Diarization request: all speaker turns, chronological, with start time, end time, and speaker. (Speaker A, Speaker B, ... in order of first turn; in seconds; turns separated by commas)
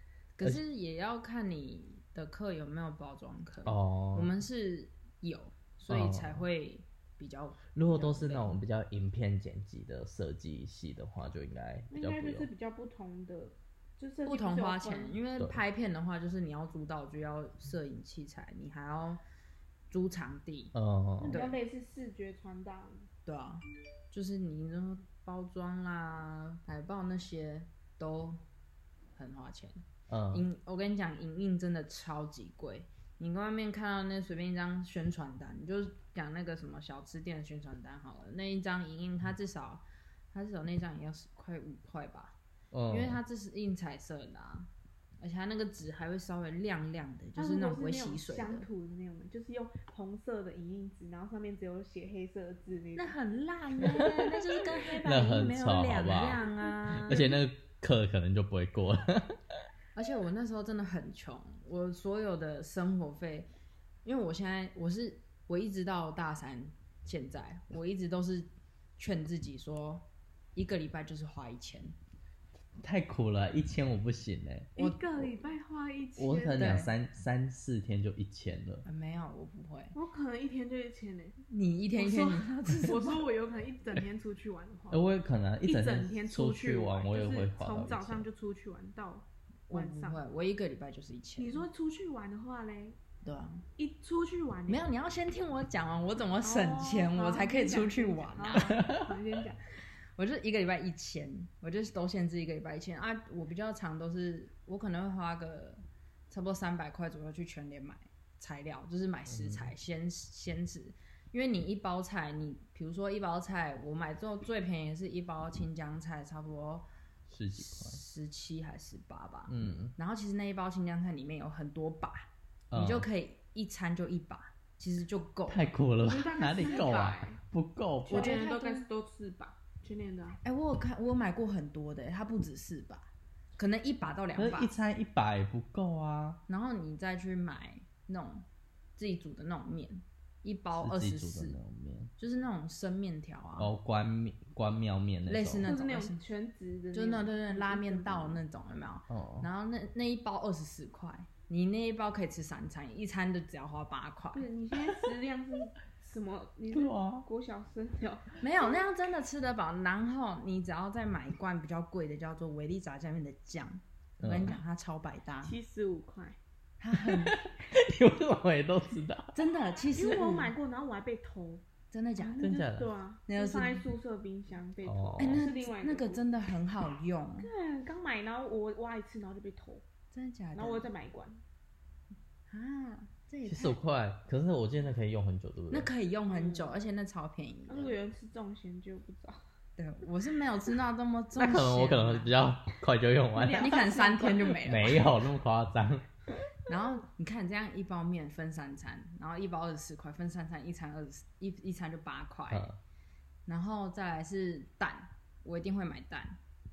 Speaker A: 0.4-8.6, Speaker B: 3.6-4.3, Speaker B: 5.9-6.4, Speaker B: 7.8-12.5, Speaker C: 11.9-15.2, Speaker A: 14.2-19.2, Speaker A: 19.9-21.6, Speaker B: 20.7-21.4, Speaker C: 21.2-23.1, Speaker A: 23.3-28.4, Speaker A: 29.2-42.4, Speaker B: 30.1-30.4, Speaker B: 42.7-43.2, Speaker A: 42.9-44.7, Speaker A: 45.2-48.7, Speaker C: 47.4-53.2, Speaker A: 53.0-57.4, Speaker C: 54.5-55.0, Speaker B: 55.0-56.4, Speaker C: 56.1-57.4, Speaker B: 57.1-59.4, Speaker A: 60.0-63.5, Speaker A: 64.0-72.0, Speaker B: 72.8-74.8, Speaker C: 74.8-76.8, Speaker A: 74.8-75.3, Speaker B: 76.2-78.9, Speaker A: 76.6-76.9, Speaker A: 78.8-80.0, Speaker C: 80.0-81.4, Speaker A: 81.5-83.3, Speaker C: 82.0-85.1, Speaker B: 84.9-88.3, Speaker C: 85.6-90.2, Speaker A: 89.7-91.7, Speaker C: 91.4-93.0, Speaker A: 93.2-93.6, Speaker C: 93.8-94.9, Speaker A: 94.7-98.8, Speaker C: 96.4-99.6, Speaker A: 100.2-116.9, Speaker B: 109.3-109.7, Speaker B: 117.3-118.0, Speaker A: 117.5-125.7, Speaker B: 119.5-119.9, Speaker B: 122.7-123.1, Speaker B: 125.5-128.4, Speaker C: 126.0-127.4, Speaker C: 128.1-130.4, Speaker A: 128.1-128.9, Speaker A: 130.4-134.7, Speaker B: 134.4-136.4, Speaker A: 136.5-138.5, Speaker A: 139.0-141.6, Speaker B: 140.8-142.1, Speaker A: 142.2-143.7, Speaker B: 143.6-145.7, Speaker A: 145.3-146.2, Speaker C: 145.6-148.4, Speaker A: 146.9-154.5, Speaker B: 149.1-149.5, Speaker C: 154.3-158.4, Speaker B: 156.7-157.3, Speaker A: 158.4-165.5, Speaker B: 164.2-164.6, Speaker C: 165.4-166.4, Speaker A: 166.8-167.4, Speaker B: 167.1-169.4, Speaker A: 169.3-170.5, Speaker C: 169.9-171.6, Speaker A: 171.9-172.7, Speaker C: 172.2-176.2, Speaker B: 172.4-172.9, Speaker A: 173.3-173.9, Speaker B: 174.8-175.5, Speaker A: 175.2-177.5, Speaker C: 177.4-179.8, Speaker A: 180.1-180.9, Speaker C: 180.6-181.4, Speaker A: 182.5-183.8, Speaker B: 183.5-185.9, Speaker A: 185.7-188.0, Speaker C: 186.3-186.8, Speaker C: 187.7-189.4, Speaker A: 189.8-192.3, Speaker B: 191.4-193.9, Speaker C: 193.3-194.7, Speaker A: 193.6-195.1, Speaker B: 194.7-196.1, Speaker A: 196.7-202.7, Speaker B: 202.5-202.8, Speaker A: 203.5-206.4